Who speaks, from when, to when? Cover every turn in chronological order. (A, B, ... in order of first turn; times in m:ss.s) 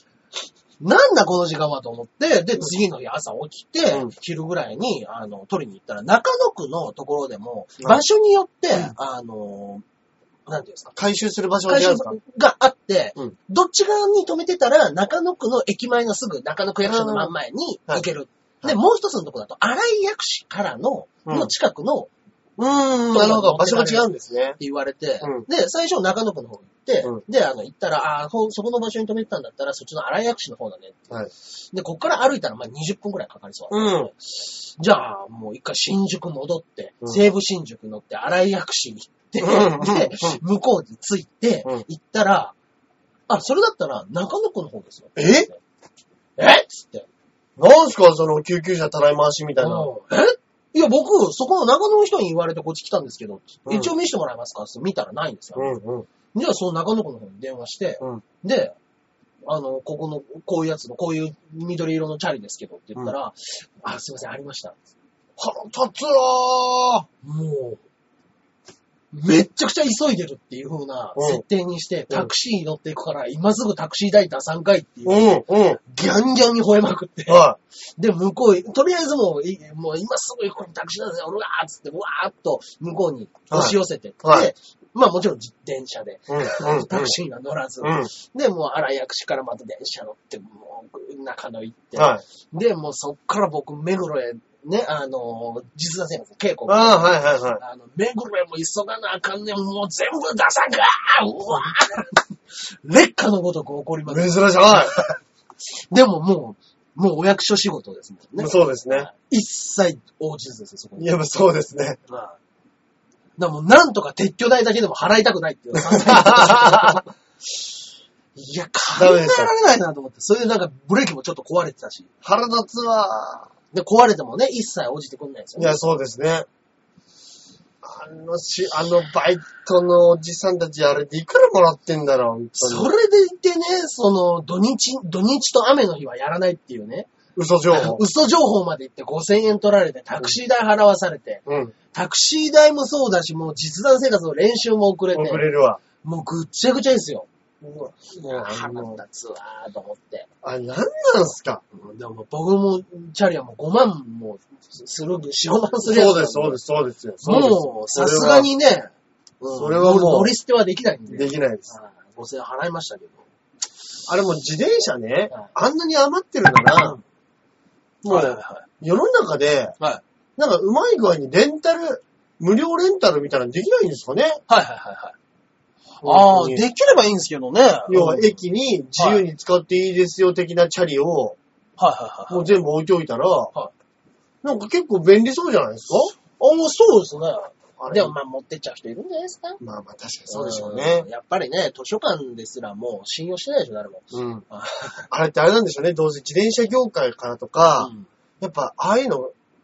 0:00.8-0:09.8 A
0:10.5-0:11.0 A
0:11.0-0:12.2 B
0:11.7-0:22.1 A
0:16.8-0:17.3 B
0:21.3-0:21.5 B
0:22.6-0:24.6 B
0:23.1-0:24.1 A
0:24.6-0:31.1 A
0:31.7-0:42.6 A
0:33.7-0:34.1 B
0:39.4-0:40.4 B
0:43.3-0:45.6 A
0:45.2-0:45.5 B
0:46.4-0:47.1 A
0:47.6-0:49.9 B
0:49.6-0:55.8 A
0:53.7-0:53.9 B
0:55.6-0:56.1 B
0:56.3-0:58.8 A
0:59.5-1:04.8 A
1:05.4-1:07.1 B
1:07.2-1:07.8 A
1:09.1-1:17.4 A
1:11.2-1:11.4 B
1:15.1-1:15.8 B
1:17.3-1:17.6 B
1:18.0-1:45.2 A
1:23.5-1:24.5 B
1:26.3-1:27.2 B
1:27.8-1:28.1 B
1:32.0-1:32.2 B
1:36.7-1:37.6 B
1:44.1-1:45.0 B
1:45.9-1:51.1 A
1:48.4-1:49.1 B
1:51.0-1:52.0 B
1:52.1-1:52.4 A
1:53.4-1:57.0 A
1:55.8-1:57.0 B
1:58.4-2:02.1 A
1:59.0-1:59.5 B
2:02.2-2:03.5 B
2:03.7-2:05.8 A
2:05.6-2:06.5 B
2:07.8-2:12.9 B
2:12.6-2:17.1 A
2:17.4-2:18.0 B
2:17.7-2:27.3 A
2:21.5-2:21.7 B
2:25.1-2:25.8 B
2:27.6-2:29.0 B
2:28.3-2:30.3 A
2:30.4-2:31.6 B
2:31.7-2:36.6 A
2:35.8-2:38.5 B
2:37.2-2:38.9 A
2:39.4-2:43.2 A
2:39.5-2:40.3 B
2:41.1-2:41.7 B
2:44.1-2:47.0 B
2:48.0-2:49.8 B
2:48.1-2:48.7 A
2:50.4-2:54.4 B
2:54.5-2:55.2 A
2:56.0-2:58.4 A
2:56.0-2:56.6 B
2:57.9-3:01.4 B
2:59.0-2:59.2 A
3:01.8-3:02.6 A
3:02.3-3:03.5 B
3:04.4-3:06.1 B
3:06.4-3:09.6 A
3:07.8-3:08.1 B
3:09.6-3:11.1 B
3:10.3-3:15.1 A
3:14.1-3:14.4 B
3:15.1-3:17.9 B
3:17.8-3:18.1 A
3:18.4-3:19.3 B